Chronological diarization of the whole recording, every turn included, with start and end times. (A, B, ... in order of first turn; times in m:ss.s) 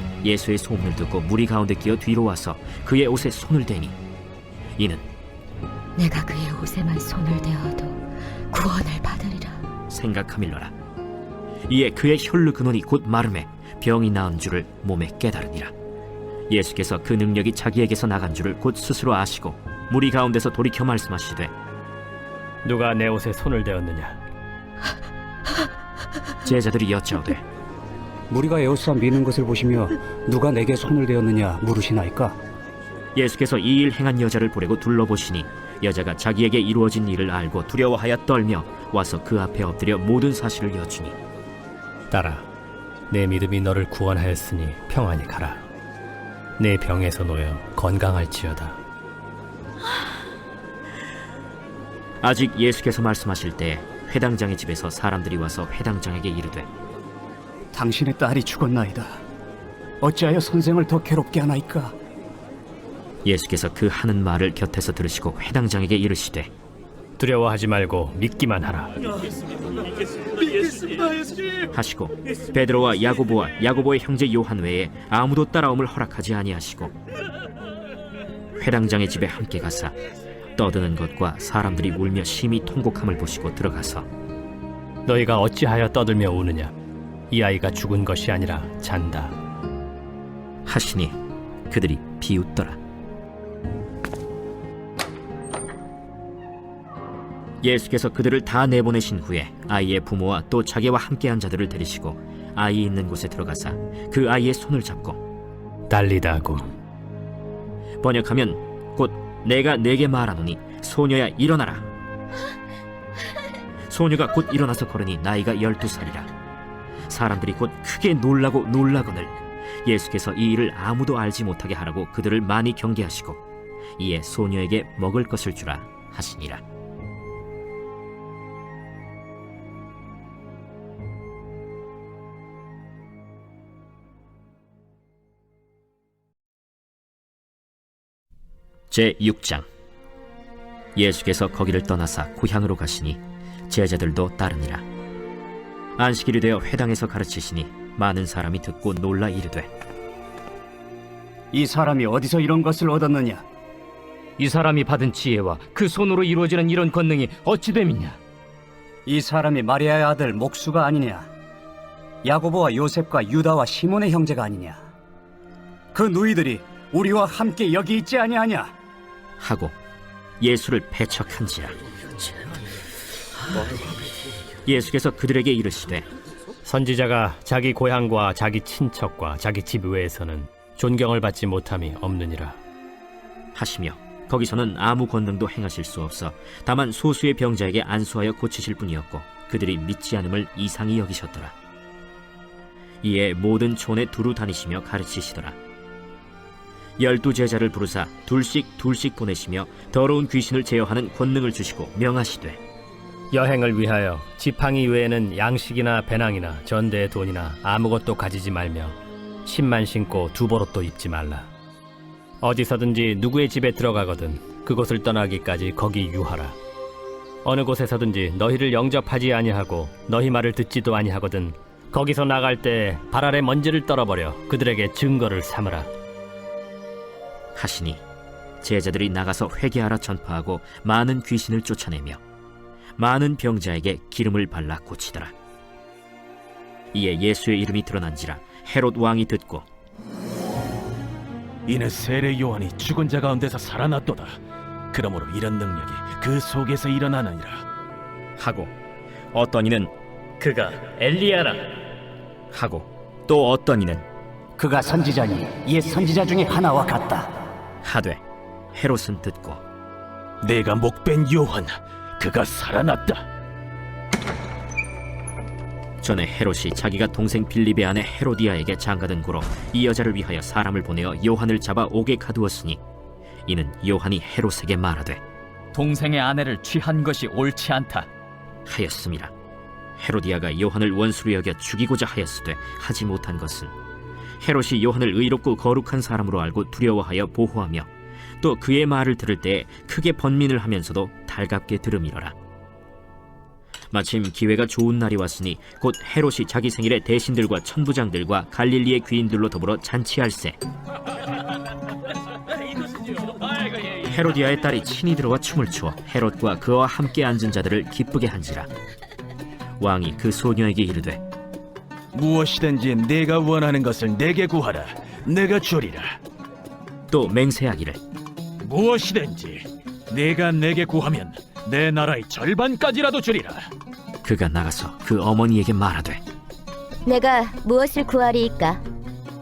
0:00.2-0:04.0 A
0:04.8-0:05.0 A
0:06.0-0:09.6 B
0:09.9-0:10.7 A
0:11.7-0:15.7 A
0:16.5-0:21.5 A
0:22.6-0:24.2 C
0:26.5-0:27.4 A
0:28.3-0:32.4 D
0:33.1-0:41.1 A
0:42.1-0:42.5 C
0:43.1-0:45.6 C
0:46.6-0:48.8 C
0:52.2-0:56.7 A
0:57.7-0:59.2 D
1:00.0-1:01.9 D
1:03.2-1:06.5 A
1:07.2-1:08.9 C
1:11.7-1:16.9 A
1:18.6-1:19.9 A
1:20.6-1:24.0 A
1:25.0-1:26.7 C
1:27.3-1:29.3 C
1:30.6-1:31.1 A
1:31.7-1:32.8 A
1:37.6-1:45.2 A
1:45.9-1:46.7 C
1:48.0-1:51.9 A
1:53.9-1:56.3 A
1:57.1-1:59.3 A
1:59.8-2:03.4 A
2:04.0-2:06.6 A
2:18.9-2:19.6 A
2:21.0-2:24.8 A
2:26.0-2:29.7 A
2:31.5-2:33.4 D
2:34.6-2:37.7 E
2:39.0-2:41.3 D
2:42.2-2:44.8 D
2:45.9-2:48.7 D
2:49.4-2:49.7 A
2:50.4-2:51.8 A
2:54.6-2:56.0 A
2:56.6-3:02.6 C
3:03.5-3:11.5 A
3:13.0-3:15.6 A
3:17.0-3:22.6 A
3:23.3-3:31.5 C
3:32.4-3:36.6 C
3:37.4-3:45.9 C
3:47.5-3:48.0 A
3:48.6-3:52.2 A
3:53.0-3:55.3 A
3:56.9-3:59.6 A
4:01.7-4:04.4 F
4:04.9-4:07.6 F
4:08.4-4:08.7 A
4:09.3-4:09.9 A
4:10.4-4:11.7 C
4:12.5-4:14.0 A
4:14.6-4:17.3 D
4:17.8-4:18.2 A
4:18.7-4:19.6 A
4:20.4-4:23.2 F
4:26.0-4:32.8 A
4:33.5-4:35.2 A
4:35.7-4:38.0 E
4:38.7-4:39.3 A
4:40.0-4:43.7 A
4:44.4-4:47.9 A
4:48.4-4:52.3 A
4:53.9-5:00.6 A
5:04.0-5:08.7 A
5:09.8-5:11.2 A
5:12.1-5:16.2 F
5:17.1-5:18.0 A
5:18.6-5:23.6 F
5:24.2-5:26.2 A
5:27.0-5:28.8 B